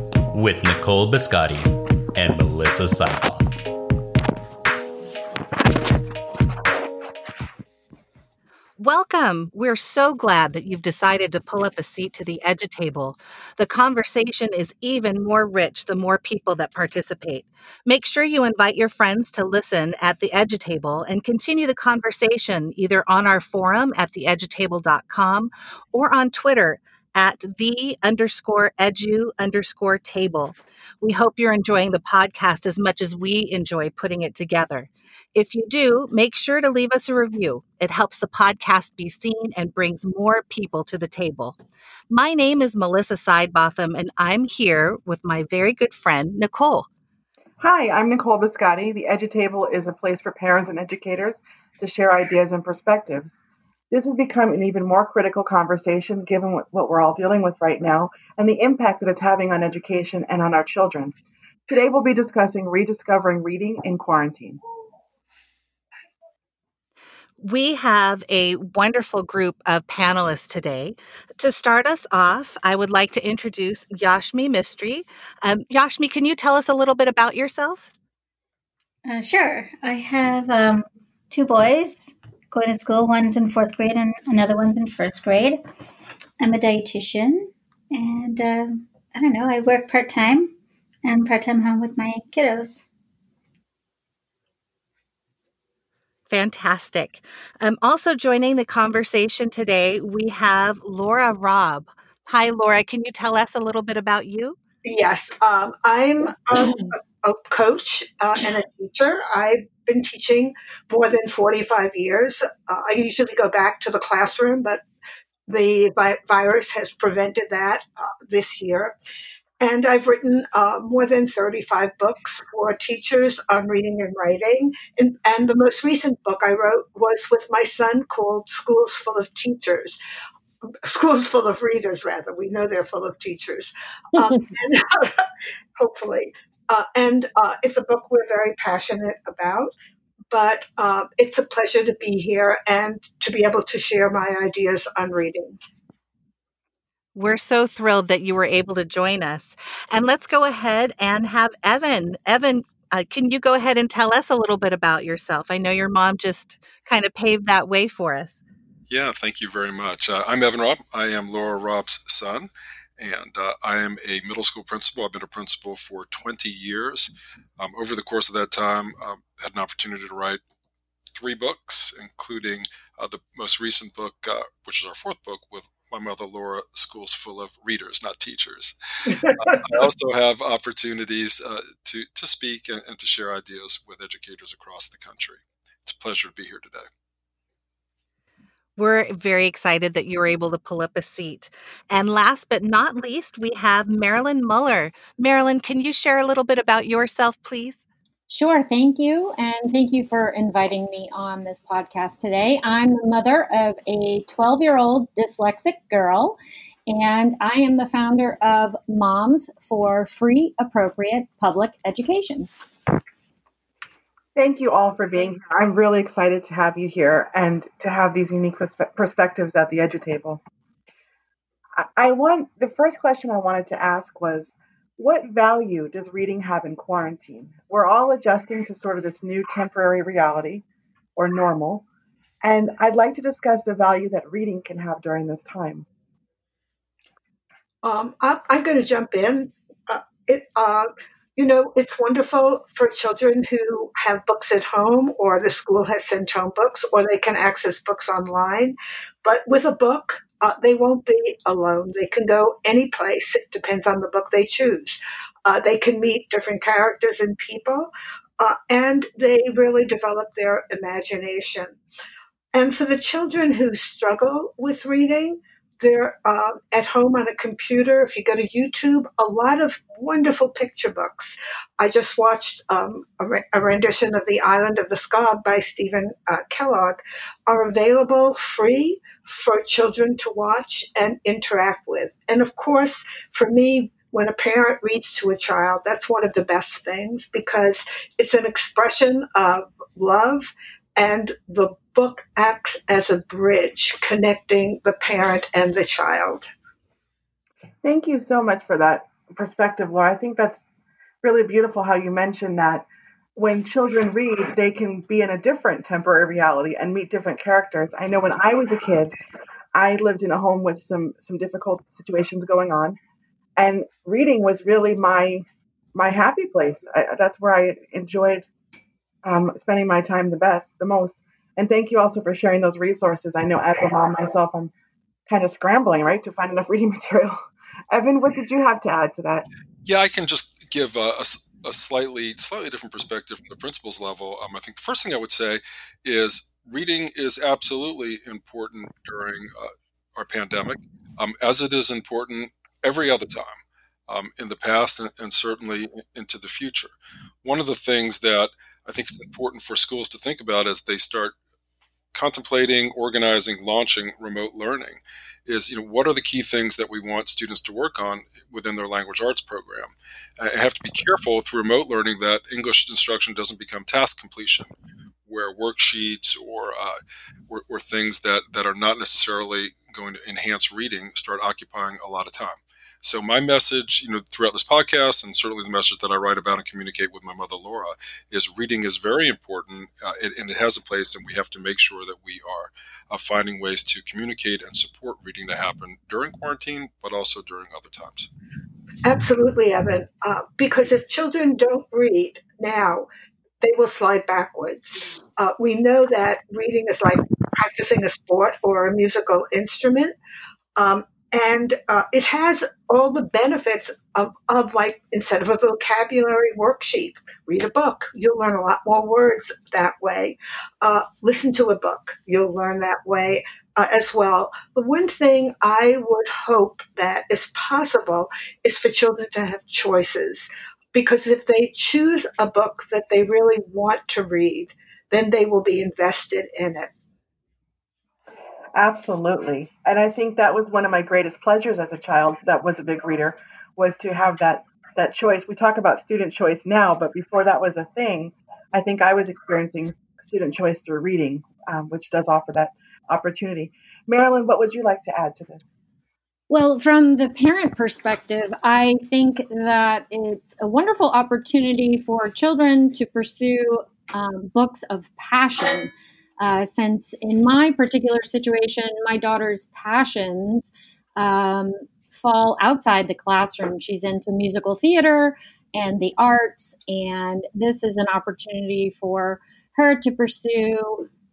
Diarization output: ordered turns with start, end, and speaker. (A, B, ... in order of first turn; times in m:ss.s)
0:00.3-0:03.5 A
0:08.8-0:41.6 B
0:42.1-0:46.9 B
0:47.6-1:01.1 C
1:01.7-1:04.6 C
1:07.4-1:17.9 B
1:19.1-1:25.6 D
1:26.4-1:32.8 D
1:36.3-1:44.6 B
1:44.8-1:54.8 E
1:55.5-1:58.9 E
1:59.6-2:10.0 E
2:10.8-2:15.2 E
2:15.8-2:19.7 E
2:20.3-2:25.6 E
2:27.2-2:38.4 B
2:38.9-2:50.4 F
2:51.2-3:06.9 F
2:59.1-2:59.6 E
3:08.8-3:17.8 B
3:18.3-3:26.4 G
3:26.9-3:32.5 G
3:34.4-3:40.4 C
3:41.8-3:50.6 C
3:51.2-3:51.8 C
3:52.4-3:55.9 C
3:57.8-4:21.8 E
4:22.5-4:56.5 E
4:57.8-5:00.7 C
5:01.2-5:09.1 C
5:09.7-5:13.0 C
5:13.6-5:18.5 C
5:19.2-5:24.7 C
5:25.3-5:27.4 C
5:27.9-5:29.5 C
5:29.8-5:51.4 F
5:52.1-6:04.7 F
6:05.3-6:07.0 F
6:07.5-6:28.3 F
6:29.0-6:33.1 E
6:33.6-6:40.2 E
6:40.8-7:06.9 E
7:08.7-7:25.7 C
7:26.5-7:51.1 G